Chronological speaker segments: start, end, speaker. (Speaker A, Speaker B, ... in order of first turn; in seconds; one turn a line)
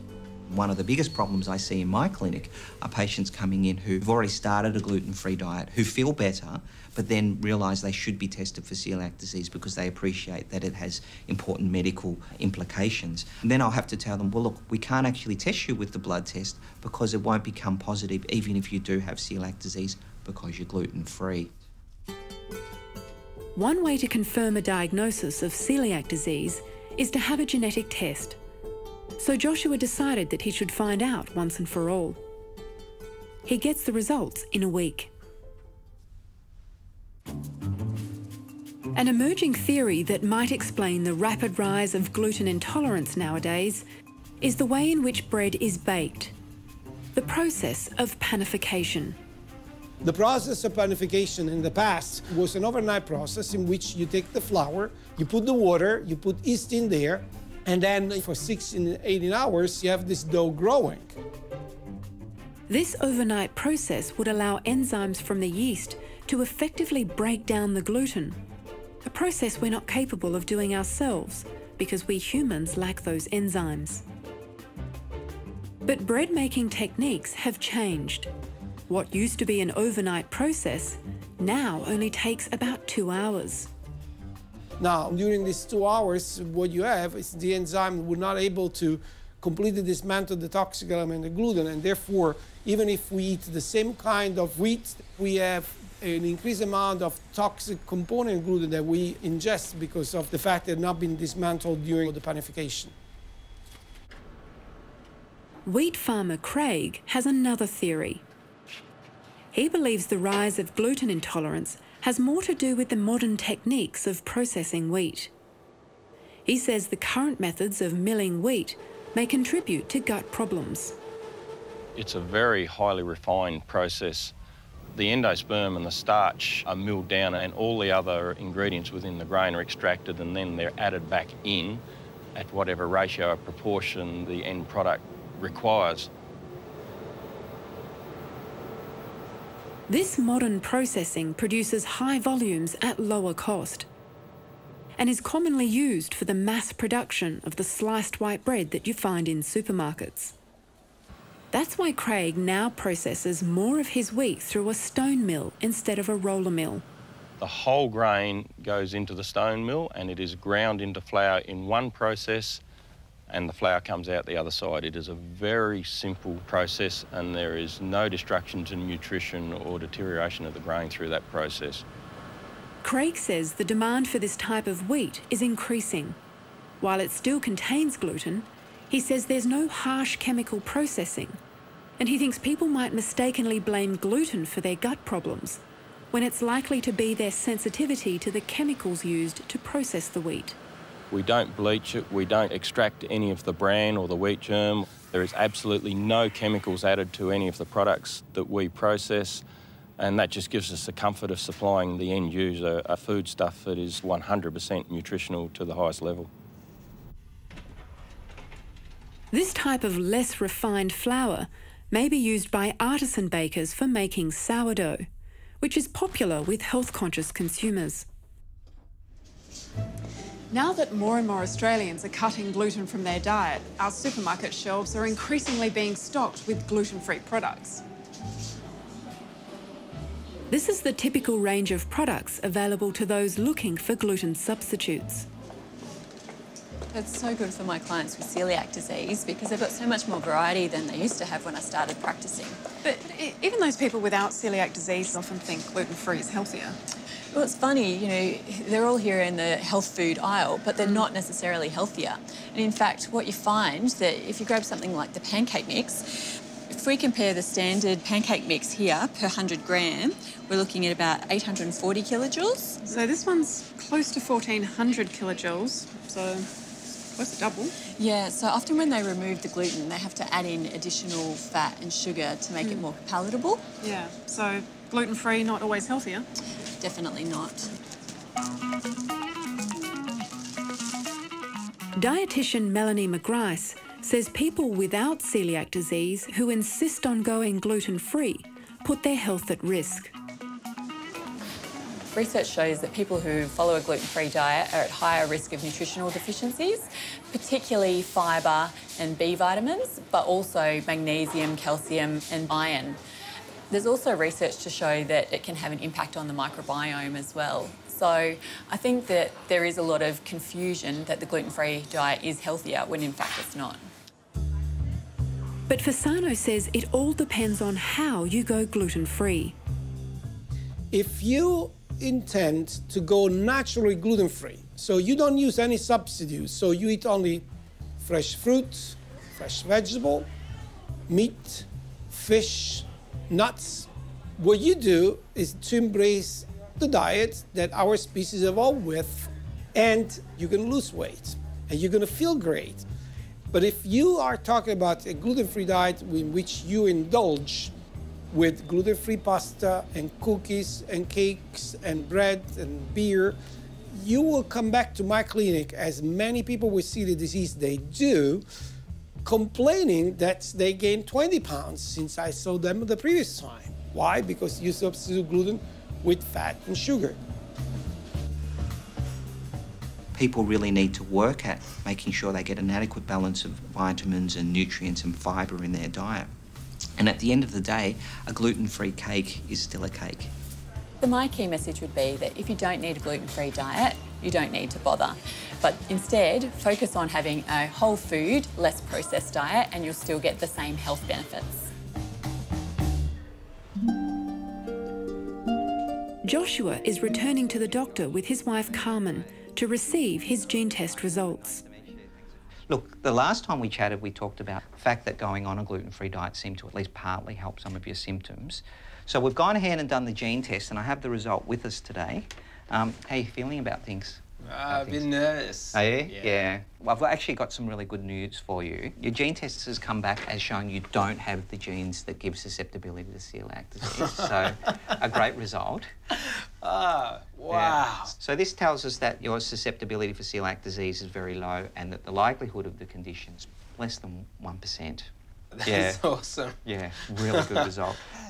Speaker A: 0.5-21.5
Speaker B: 23.5-28.4
Speaker B: 29.2-32.2
Speaker B: 33.5-35.1
Speaker B: 38.9-43.8
Speaker B: 44.4-46.3
Speaker B: 47.1-49.2
Speaker C: 50.0-61.1
Speaker B: 62.7-68.4
Speaker B: 69.0-74.0
Speaker B: 75.8-78.3
Speaker B: 78.9-83.7
Speaker C: 84.8-102.9
Speaker B: 105.7-108.2
Speaker B: 109.5-115.3
Speaker B: 116.4-121.0
Speaker D: 121.9-124.3
Speaker D: 124.9-131.8
Speaker D: 132.3-136.1
Speaker B: 139.9-143.9
Speaker B: 145.0-150.3
Speaker B: 151.5-156.8
Speaker D: 157.4-162.6
Speaker D: 163.3-171.8
Speaker B: 172.8-176.2
Speaker B: 176.8-181.4
Speaker B: 182.0-185.6
Speaker B: 186.1-190.6
Speaker D: 191.1-199.4
Speaker D: 200.0-206.3
Speaker B: 209.3-215.0
Speaker B: 215.6-218.1
Speaker E: 220.5-227.8
Speaker B: 230.5-235.3
Speaker F: 236.9-242.6
Speaker E: 242.8-246.8
Speaker F: 247.3-262.8
Speaker E: 262.9-266.5
Speaker E: 267.0-267.7
Speaker F: 268.0-273.6
Speaker E: 273.8-276.2
Speaker F: 276.8-277.7
Speaker B: 282.0-290.1
Speaker F: 292.1-303.0
Speaker F: 303.7-313.8
Speaker B: 315.7-319.6
Speaker C: 320.9-327.4
Speaker C: 328.0-330.3
Speaker C: 331.1-342.8
Speaker C: 343.5-347.7
Speaker C: 348.3-353.4
Speaker C: 353.9-358.4
Speaker C: 359.2-367.2
Speaker A: 370.1-376.3
Speaker A: 377.0-380.3
Speaker F: 381.0-391.7
Speaker B: 396.2-401.6
Speaker A: 398.2-399.3
Speaker A: 400.1-415.1
Speaker G: 414.4-416.5
Speaker A: 415.7-425.9
Speaker G: 426.1-428.1
Speaker A: 427.5-435.1
Speaker G: 435.5-437.7
Speaker A: 435.6-436.0
Speaker A: 436.6-438.0